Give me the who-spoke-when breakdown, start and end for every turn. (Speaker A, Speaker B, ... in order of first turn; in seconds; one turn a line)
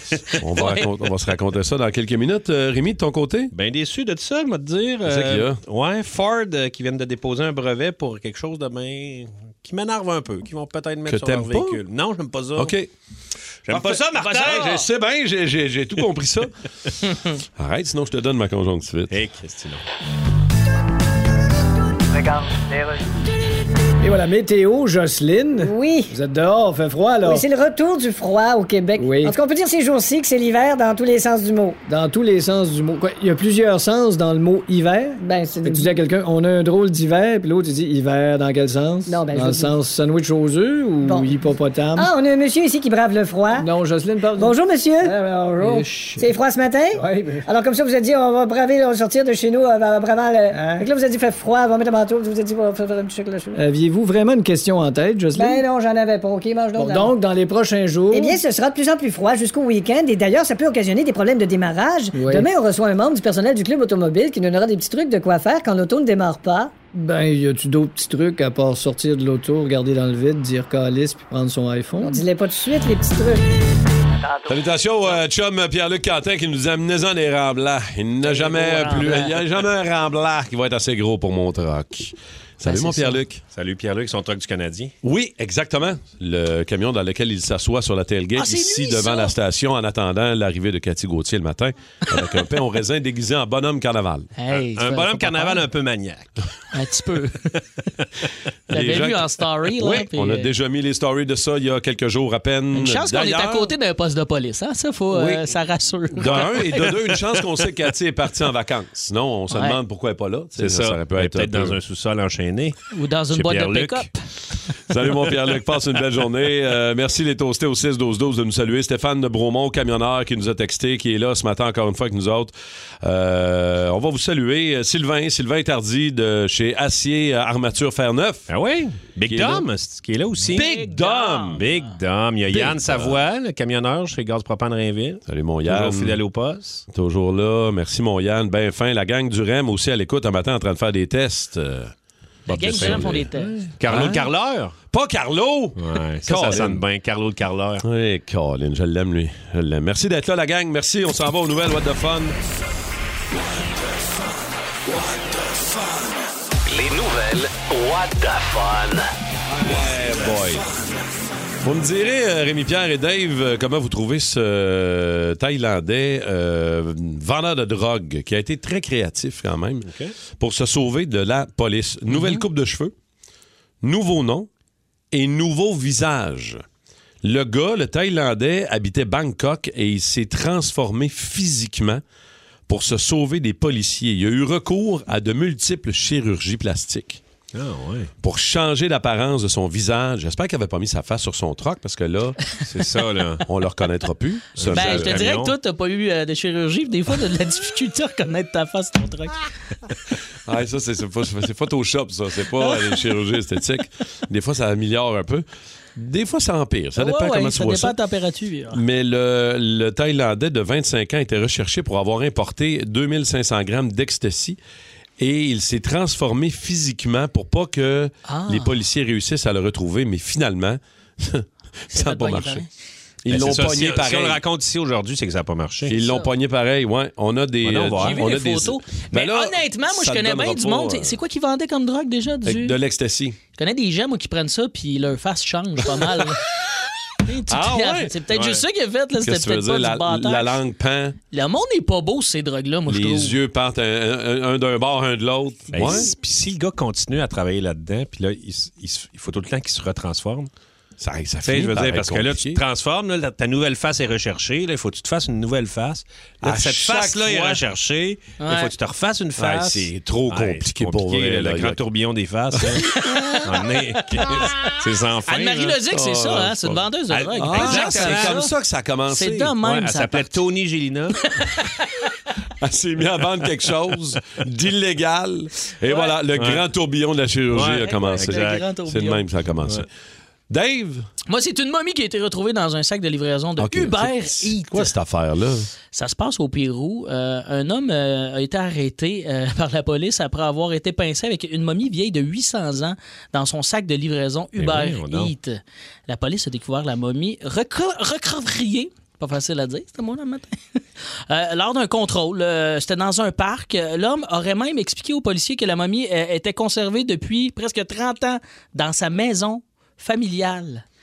Speaker A: 0.3-3.5
Speaker B: 3.5-12.7
Speaker A: 5.0-5.6
Speaker A: 11.1-11.8
Speaker A: 12.6-12.9
Speaker B: 13.7-14.8
Speaker A: 13.7-16.5
Speaker C: 14.1-14.8
Speaker A: 17.3-19.2
Speaker B: 19.1-19.8
Speaker D: 24.0-27.5
Speaker E: 25.6-26.1
Speaker E: 27.2-31.8
Speaker D: 28.9-29.4
Speaker D: 31.9-42.1
Speaker E: 35.2-35.9
Speaker E: 39.0-39.8
Speaker E: 41.0-41.4
Speaker E: 42.0-43.7
Speaker D: 43.5-46.3
Speaker E: 44.4-53.6
Speaker D: 46.9-47.4
Speaker D: 50.5-50.8
Speaker D: 53.5-55.6
Speaker E: 55.3-57.1
Speaker D: 56.7-58.4
Speaker E: 58.1-66.8
Speaker D: 62.1-62.5
Speaker D: 66.9-72.2
Speaker E: 72.0-73.5
Speaker A: 74.5-83.4
Speaker C: 78.2-79.4
Speaker C: 82.7-83.2
Speaker B: 83.5-84.9
Speaker A: 85.0-94.3
Speaker C: 88.3-89.3
Speaker C: 94.4-95.6
Speaker B: 94.5-96.5
Speaker C: 96.7-97.5
Speaker A: 98.7-103.7
Speaker C: 98.7-100.5
Speaker C: 102.7-107.2
Speaker B: 105.1-105.5
Speaker A: 106.1-111.8
Speaker B: 106.2-106.5
Speaker C: 109.5-109.8
Speaker B: 110.6-112.8
Speaker C: 112.9-114.2
Speaker B: 113.3-114.1
Speaker A: 114.9-128.5
Speaker B: 128.5-130.6
Speaker A: 129.3-129.6
Speaker A: 130.5-131.6
Speaker C: 130.5-131.8
Speaker B: 131.5-136.8
Speaker A: 132.5-133.2
Speaker A: 135.3-136.2
Speaker A: 136.9-141.9
Speaker C: 142.5-143.5
Speaker B: 142.5-144.7
Speaker A: 142.6-143.3
Speaker A: 143.8-144.3
Speaker A: 144.9-146.8
Speaker B: 145.8-147.8
Speaker A: 147.8-152.4
Speaker F: 156.6-159.1
Speaker A: 159.5-160.6
Speaker A: 161.6-172.9
Speaker B: 169.8-170.1
Speaker C: 172.1-172.4
Speaker A: 173.8-174.5
Speaker A: 175.1-176.6
Speaker A: 177.2-182.0
Speaker A: 182.7-187.2
Speaker B: 187.5-188.1
Speaker A: 188.2-192.4
Speaker B: 192.6-193.4
Speaker A: 193.4-195.3
Speaker B: 194.6-195.5
Speaker C: 194.7-199.4
Speaker A: 200.4-205.4
Speaker A: 205.9-207.9
Speaker C: 207.0-208.8
Speaker A: 208.7-214.6
Speaker A: 215.2-222.6
Speaker C: 218.2-218.7
Speaker C: 221.9-222.7
Speaker A: 223.2-224.4
Speaker B: 223.3-226.0
Speaker A: 225.9-231.2
Speaker C: 226.0-226.3
Speaker B: 227.6-228.3
Speaker C: 228.0-232.8
Speaker A: 232.4-233.4
Speaker C: 233.6-236.4
Speaker C: 237.2-240.6
Speaker A: 237.5-238.1
Speaker B: 238.3-238.6
Speaker A: 239.2-241.2
Speaker C: 241.3-243.4
Speaker A: 242.9-246.1
Speaker B: 245.7-250.5
Speaker A: 251.0-252.6
Speaker B: 251.4-262.9
Speaker A: 256.4-257.6
Speaker C: 258.4-258.7
Speaker A: 259.4-261.8
Speaker A: 262.6-263.3
Speaker C: 263.0-263.4
Speaker B: 263.4-268.5
Speaker A: 264.2-264.6
Speaker C: 265.3-268.5
Speaker A: 267.4-269.5
Speaker C: 269.1-270.4
Speaker B: 269.6-271.3
Speaker C: 271.3-271.7
Speaker A: 272.6-279.9
Speaker C: 275.9-276.2
Speaker B: 276.3-276.6
Speaker B: 277.5-278.6
Speaker C: 277.9-279.2
Speaker A: 280.5-281.1
Speaker C: 281.3-284.9
Speaker A: 283.6-285.7
Speaker C: 285.9-310.8
Speaker B: 294.6-295.3